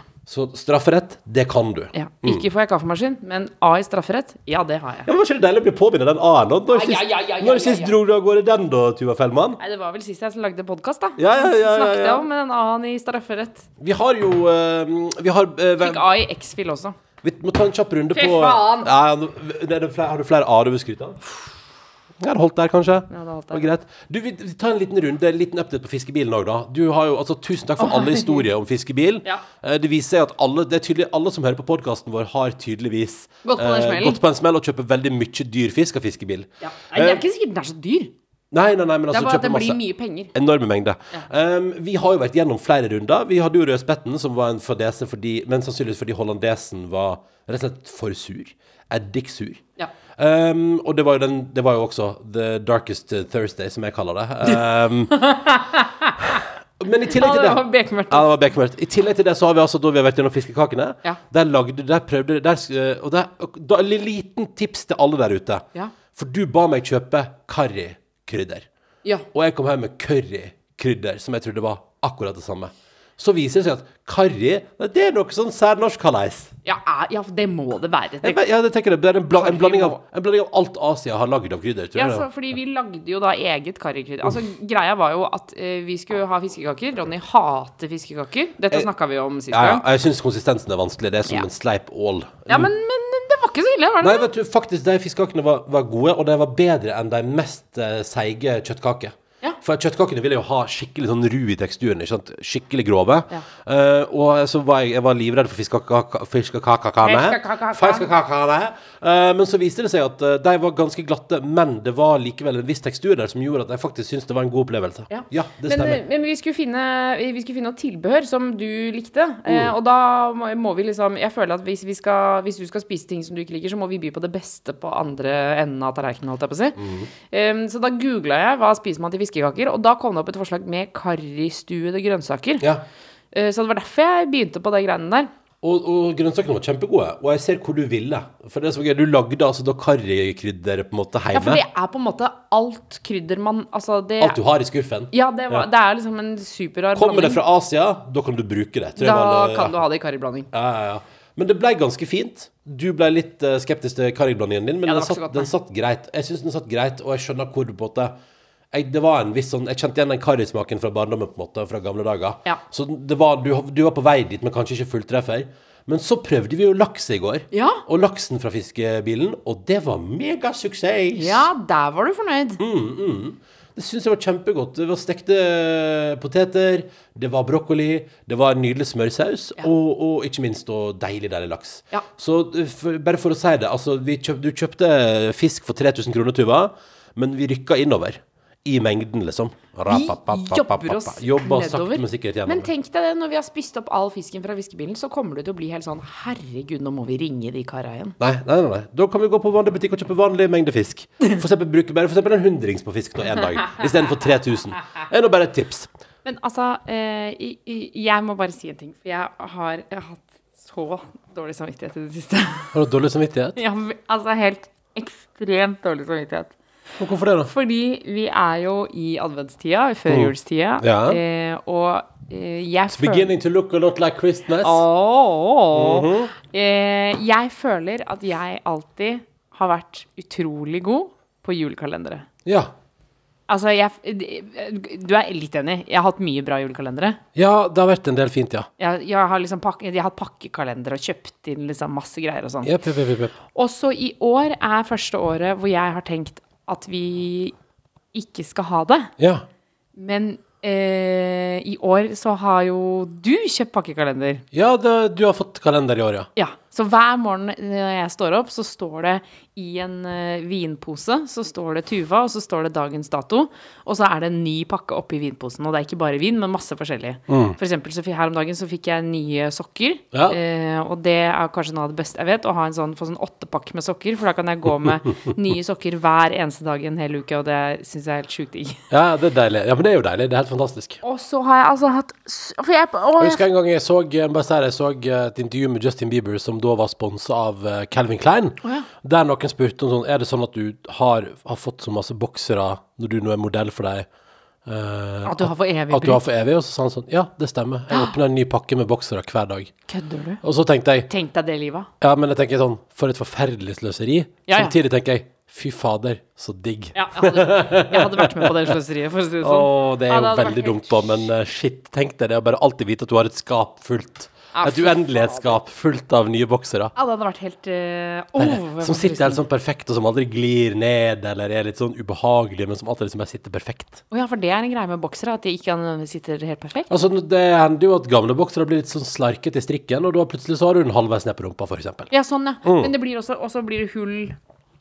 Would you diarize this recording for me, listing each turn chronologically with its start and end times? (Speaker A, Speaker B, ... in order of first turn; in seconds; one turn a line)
Speaker A: 0.2-2.5
Speaker B: 1.9-5.1
Speaker A: 5.0-9.6
Speaker B: 6.7-8.0
Speaker B: 9.6-13.7
Speaker A: 11.2-12.2
Speaker A: 13.8-16.1
Speaker B: 15.8-16.9
Speaker A: 17.2-21.2
Speaker B: 18.1-18.9
Speaker A: 22.2-37.2
Speaker B: 23.1-23.7
Speaker B: 27.8-28.4
Speaker B: 33.4-34.2
Speaker B: 36.6-38.1
Speaker A: 38.5-39.8
Speaker B: 39.1-40.3
Speaker A: 40.3-49.6
Speaker A: 50.1-55.1
Speaker B: 55.1-56.4
Speaker A: 56.2-68.7
Speaker B: 57.1-58.4
Speaker A: 69.3-76.5
Speaker B: 76.6-78.4
Speaker A: 78.2-82.3
Speaker B: 79.3-80.0
Speaker B: 81.9-89.8
Speaker A: 89.5-92.7
Speaker B: 92.5-94.3
Speaker A: 94.0-116.0
Speaker B: 107.0-108.1
Speaker B: 115.1-126.8
Speaker A: 119.5-119.7
Speaker A: 126.8-127.1
Speaker B: 127.3-132.7
Speaker A: 132.6-132.8
Speaker B: 133.3-135.3
Speaker A: 135.6-141.6
Speaker B: 141.3-144.4
Speaker A: 144.2-145.7
Speaker B: 145.1-147.4
Speaker A: 146.9-149.8
Speaker B: 149.0-150.5
Speaker A: 150.5-158.1
Speaker B: 154.8-155.5
Speaker A: 158.7-171.5
Speaker B: 167.5-167.8
Speaker B: 171.1-172.6
Speaker A: 172.6-192.7
Speaker B: 189.9-198.2
Speaker A: 198.2-205.9
Speaker B: 206.2-212.7
Speaker A: 212.7-213.6
Speaker B: 213.6-216.6
Speaker A: 217.0-217.5
Speaker B: 217.5-223.3
Speaker A: 220.1-221.2
Speaker A: 222.9-224.8
Speaker B: 224.6-232.2
Speaker A: 225.7-226.3
Speaker A: 232.4-232.7
Speaker B: 233.5-237.2
Speaker A: 237.3-238.7
Speaker B: 238.8-242.7
Speaker A: 242.6-243.3
Speaker B: 243.5-247.5
Speaker B: 248.1-249.1
Speaker A: 249.2-249.4
Speaker B: 249.9-254.4
Speaker A: 254.5-256.3
Speaker B: 256.4-278.8
Speaker A: 267.3-267.6
Speaker A: 270.1-270.4
Speaker A: 278.9-281.0
Speaker B: 281.0-283.4
Speaker A: 283.2-294.1
Speaker A: 294.6-299.7
Speaker B: 295.2-296.2
Speaker B: 299.9-300.4
Speaker A: 300.4-301.1
Speaker B: 301.1-301.9
Speaker A: 302.0-308.7
Speaker B: 304.5-304.7
Speaker B: 306.9-311.2
Speaker A: 309.4-316.9
Speaker B: 314.5-315.6
Speaker B: 316.9-319.4
Speaker A: 318.4-324.0
Speaker B: 324.1-326.9
Speaker A: 326.9-332.1
Speaker B: 332.1-334.4
Speaker A: 332.6-332.9